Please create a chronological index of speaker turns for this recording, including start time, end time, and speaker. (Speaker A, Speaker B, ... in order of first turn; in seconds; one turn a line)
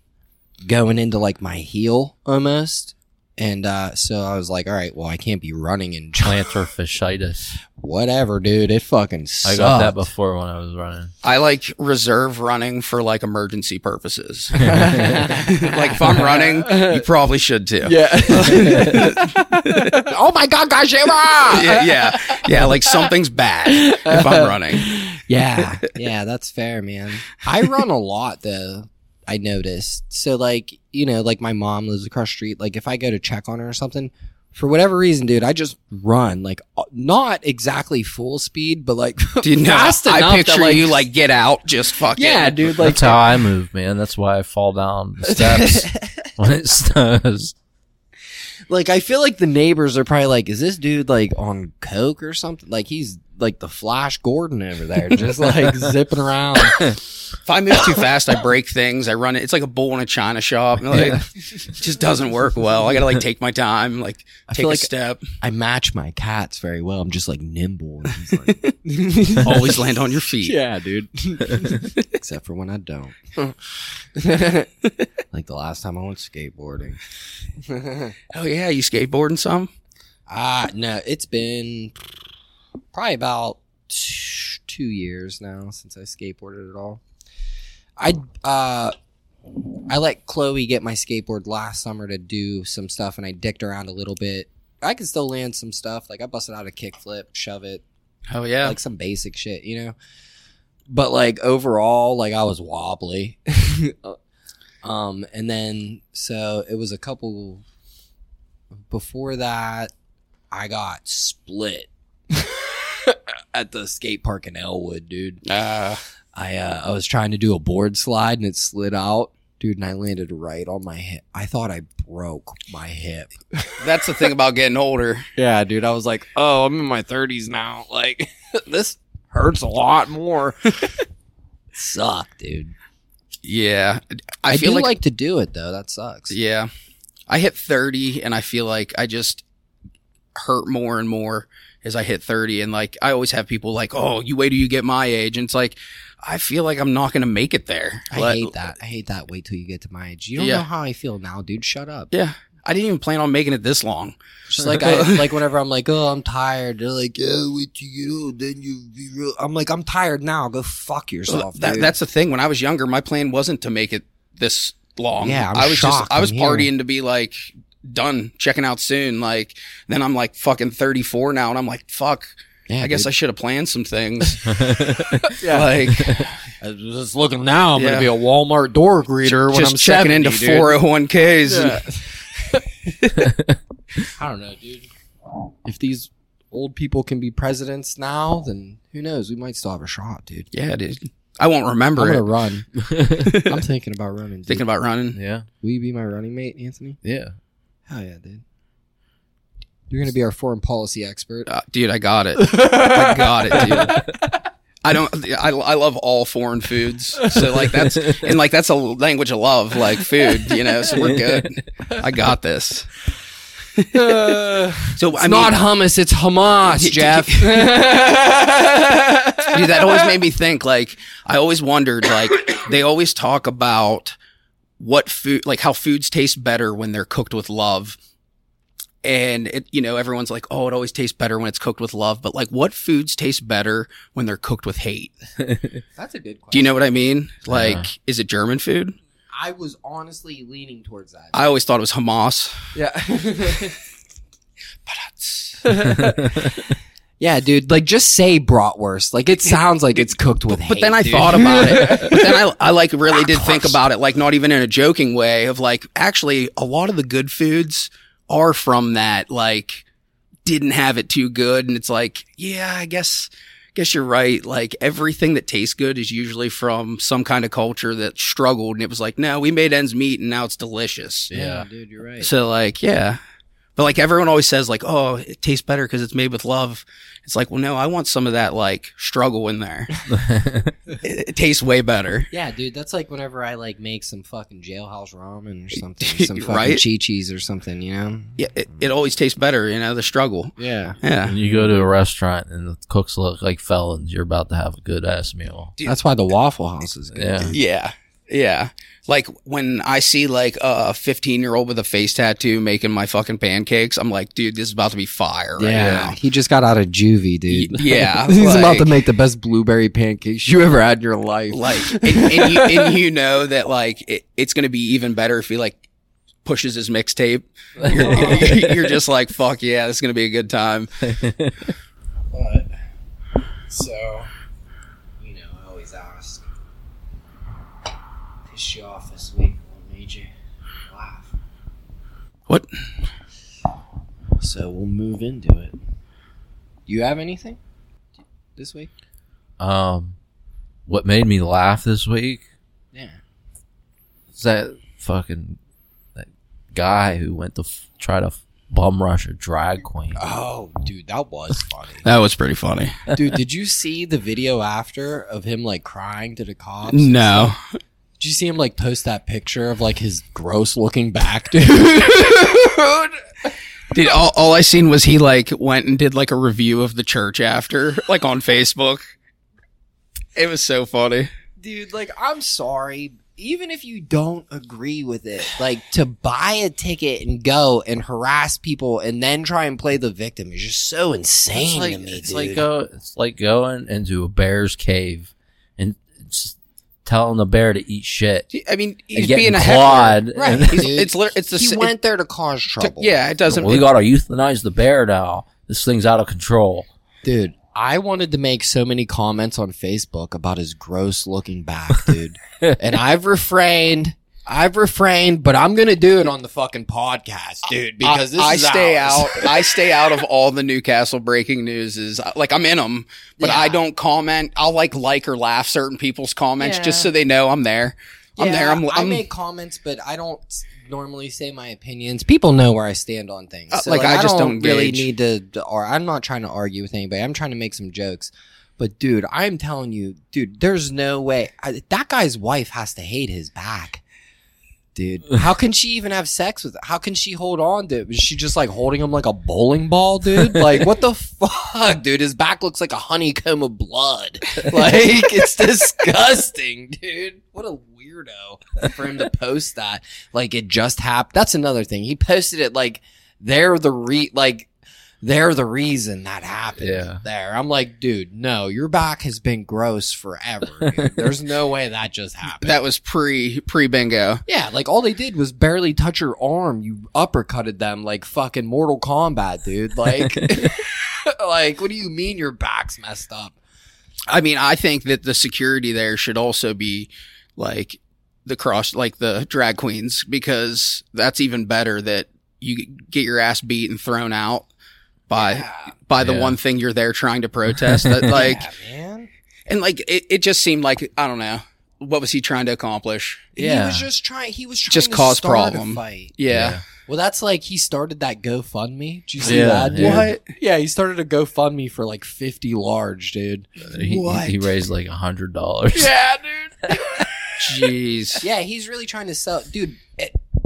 Speaker A: 0.6-6.6
Speaker B: 6.2-7.6
Speaker A: 7.7-10.0
Speaker B: 9.4-11.1
Speaker C: 11.2-19.9
Speaker A: 14.6-17.1
Speaker A: 17.8-23.1
Speaker C: 21.5-24.9
Speaker A: 23.7-41.0
Speaker C: 39.4-42.8
Speaker A: 42.1-43.4
Speaker B: 42.8-47.5
Speaker A: 45.3-46.3
Speaker A: 48.7-57.0
Speaker C: 57.4-65.2
Speaker A: 60.9-61.3
Speaker A: 64.5-64.9
Speaker A: 65.4-69.9
Speaker C: 69.4-70.6
Speaker A: 70.4-74.7
Speaker A: 75.3-77.0
Speaker A: 77.6-78.1
Speaker C: 78.3-79.7
Speaker A: 80.3-82.0
Speaker A: 82.9-87.0
Speaker A: 88.0-88.9
Speaker A: 89.9-97.8
Speaker C: 98.3-98.8
Speaker A: 98.6-99.9
Speaker A: 100.9-104.2
Speaker A: 104.8-107.6
Speaker A: 108.9-109.9
Speaker A: 110.5-115.4
Speaker C: 115.4-116.0
Speaker A: 116.3-123.7
Speaker C: 123.8-125.3
Speaker A: 125.3-131.0
Speaker A: 131.7-132.7
Speaker C: 133.4-134.9
Speaker A: 134.5-136.3
Speaker C: 136.3-136.7
Speaker C: 137.3-139.4
Speaker C: 140.3-148.6
Speaker A: 148.1-152.1
Speaker C: 150.4-150.7
Speaker C: 152.1-155.3
Speaker A: 154.5-161.9
Speaker C: 161.3-172.3
Speaker A: 165.2-166.7
Speaker A: 172.7-173.1
Speaker C: 172.8-174.5
Speaker B: 174.5-175.3
Speaker A: 175.2-180.8
Speaker C: 175.4-176.3
Speaker C: 177.8-178.1
Speaker C: 179.2-181.9
Speaker A: 181.4-182.6
Speaker B: 183.2-183.5
Speaker A: 184.0-184.9
Speaker A: 185.6-190.5
Speaker C: 190.5-192.2
Speaker A: 192.0-194.6
Speaker B: 192.8-193.2
Speaker C: 193.2-193.6
Speaker C: 194.5-195.2
Speaker B: 195.1-195.5
Speaker A: 195.6-197.0
Speaker B: 197.0-197.3
Speaker A: 197.9-198.4
Speaker A: 199.9-201.5
Speaker C: 201.5-204.0
Speaker A: 202.4-204.2
Speaker C: 204.8-212.9
Speaker A: 207.2-207.8
Speaker A: 210.4-210.9
Speaker B: 211.0-211.4
Speaker C: 213.8-214.3
Speaker A: 213.9-220.1
Speaker C: 214.9-215.6
Speaker C: 216.7-217.8
Speaker C: 219.4-224.1
Speaker C: 224.8-228.0
Speaker C: 229.0-235.1
Speaker B: 235.4-235.8
Speaker A: 235.9-236.7
Speaker C: 236.5-238.9
Speaker B: 237.5-237.9
Speaker A: 239.3-241.3
Speaker C: 241.3-242.5
Speaker A: 242.7-243.8
Speaker C: 244.9-245.6
Speaker A: 245.6-252.4
Speaker B: 246.0-246.5
Speaker C: 250.0-259.8
Speaker A: 253.3-253.7
Speaker C: 260.4-271.3
Speaker B: 271.3-271.7
Speaker A: 271.3-272.3
Speaker C: 272.2-273.2
Speaker C: 273.8-280.0
Speaker B: 280.1-280.7
Speaker C: 281.0-282.3
Speaker A: 282.3-288.4
Speaker C: 286.0-286.8
Speaker C: 288.4-291.4
Speaker A: 290.6-291.9
Speaker B: 291.2-295.7
Speaker A: 295.8-297.6
Speaker B: 297.1-297.5
Speaker C: 297.5-306.2
Speaker A: 305.6-312.9
Speaker B: 305.8-306.0
Speaker C: 307.5-308.9
Speaker C: 311.5-315.8
Speaker C: 316.4-320.9
Speaker B: 317.8-318.6
Speaker A: 317.8-318.7
Speaker B: 321.0-321.5
Speaker A: 322.3-322.7
Speaker A: 323.7-324.3
Speaker A: 325.2-326.4
Speaker A: 328.5-330.3
Speaker A: 330.9-331.3
Speaker A: 334.4-335.7
Speaker A: 336.9-337.6
Speaker A: 338.6-338.9
Speaker B: 339.6-340.2
Speaker B: 340.9-342.4
Speaker A: 342.9-343.2
Speaker B: 344.3-345.6
Speaker B: 346.1-350.2
Speaker A: 350.2-352.0
Speaker C: 352.0-352.9
Speaker A: 353.1-357.5
Speaker C: 356.9-357.6
Speaker A: 358.2-363.5
Speaker C: 363.9-369.0
Speaker C: 370.4-371.3
Speaker A: 371.6-382.6
Speaker B: 381.5-388.5
Speaker C: 388.5-391.9
Speaker B: 389.1-390.9
Speaker A: 390.3-393.2
Speaker C: 392.8-393.9
Speaker B: 393.5-396.9
Speaker A: 397.2-409.7
Speaker C: 408.0-419.2
Speaker A: 413.4-413.8
Speaker A: 416.6-417.1
Speaker A: 418.4-434.0
Speaker C: 423.7-425.1
Speaker A: 434.9-454.7
Speaker A: 455.2-462.8
Speaker B: 456.8-457.2
Speaker B: 460.8-461.3
Speaker C: 462.6-464.4
Speaker A: 464.4-473.6
Speaker B: 470.4-470.7
Speaker C: 474.3-484.7
Speaker C: 485.3-488.7
Speaker A: 485.3-485.9
Speaker B: 486.2-486.6
Speaker B: 487.7-488.3
Speaker A: 488.3-489.3
Speaker C: 489.7-493.5
Speaker A: 493.6-496.3
Speaker B: 493.6-494.1
Speaker C: 494.9-496.8
Speaker B: 496.5-496.8
Speaker A: 497.1-504.5
Speaker B: 499.4-500.3
Speaker C: 499.5-500.4
Speaker B: 503.9-506.1
Speaker C: 504.1-504.5
Speaker A: 505.9-507.9
Speaker C: 507.6-508.4
Speaker A: 508.4-510.4